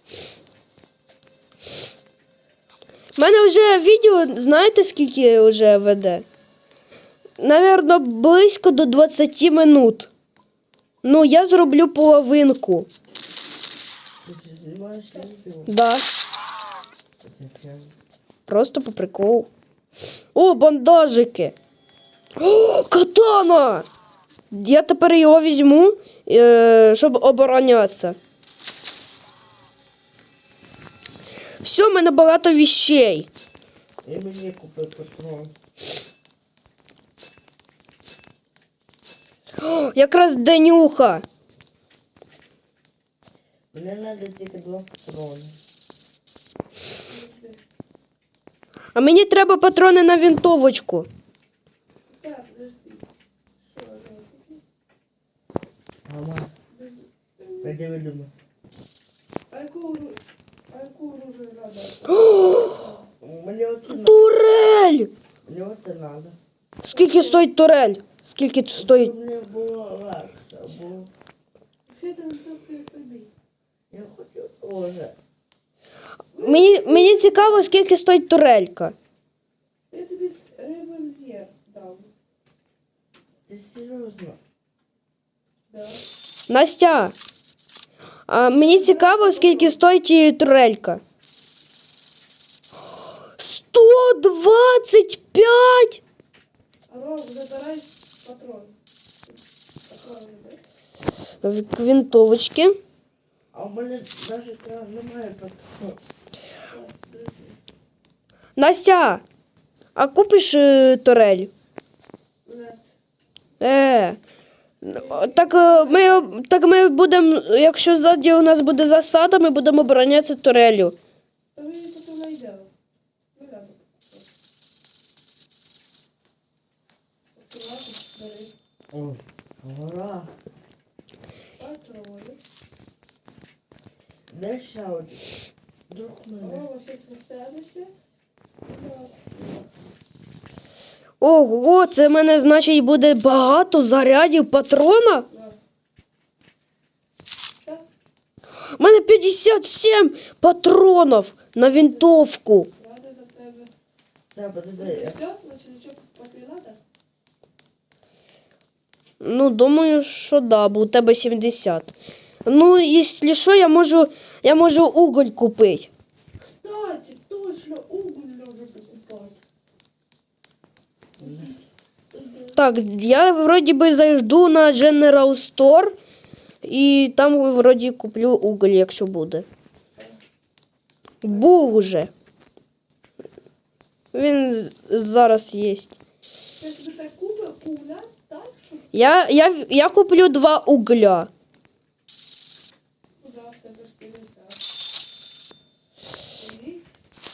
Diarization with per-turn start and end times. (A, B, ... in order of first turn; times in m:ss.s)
0:03.2-0:06.2 A
0:07.4-0:10.1 A
0:11.0-0:12.9 A
0:14.2-0:15.7 B
0:15.7-0:16.0 A
0:17.2-0:17.9 B
0:18.5-0:19.5 A
0:20.3-0:21.5 A
0:22.4-0:23.8 A
0:24.5-0:28.2 A
0:31.6-0:33.3 A
0:34.0-0:35.5 B
0:39.6-0:41.2 A
0:43.7-0:45.6 B
0:47.0-0:47.6 C
0:48.9-0:51.1 A
0:52.0-0:53.1 C
0:53.6-0:54.6 C
0:56.0-0:56.5 B
0:56.7-0:57.8 C
0:57.6-0:58.3 B
0:59.5-1:03.1 C
1:02.3-1:02.6 A
1:03.2-1:04.2 B
1:03.9-1:05.1 A
1:05.4-1:06.4 B
1:06.8-1:09.1 A
1:06.8-1:07.5 C
1:08.7-1:11.1 B
1:11.9-1:13.3 C
1:13.9-1:15.1 B
1:16.3-1:17.8 C
1:16.4-1:18.9 A
1:19.9-1:22.1 C
1:23.5-1:24.4 B
1:25.7-1:26.0 C
1:26.5-1:27.1 A
1:28.3-1:31.0 A
1:28.5-1:29.8 C
1:33.4-1:36.0 A
1:36.9-1:38.7 C
1:39.2-1:40.6 C
1:41.4-1:42.8 A
1:43.5-1:46.0 B
1:46.7-1:47.6 C
1:48.6-1:49.2 A
1:50.0-1:51.5 A
1:52.4-1:52.8 C
1:53.6-1:54.2 A
1:54.8-2:00.9 A
1:54.8-1:56.4 C
2:01.5-2:02.7 C
2:03.3-2:04.3 C
2:07.4-2:08.5 C
2:08.9-2:10.3 B
2:11.6-2:12.4 C
2:14.3-2:15.2 B
2:15.9-2:16.6 B
2:16.4-2:17.9 C
2:18.6-2:19.7 C
2:21.2-2:25.2 A
2:25.3-2:25.6 C
2:27.6-2:27.8 C
2:28.8-2:32.7 A
2:31.6-2:32.1 C
2:32.7-2:33.7 C
2:34.3-2:35.2 B
2:34.8-2:36.8 C
2:39.2-2:41.9 A
2:42.4-2:45.9 A
2:46.4-2:49.4 C
2:51.2-2:51.5 B
2:51.2-2:51.5 C
2:52.1-2:52.6 C
2:52.6-2:55.9 A
2:56.6-2:59.4 A
3:01.2-3:02.1 A
3:01.2-3:01.6 C
3:04.1-3:05.9 A
3:06.6-3:09.2 C
3:08.9-3:11.3 A
3:13.2-3:14.6 C
3:16.4-3:16.8 C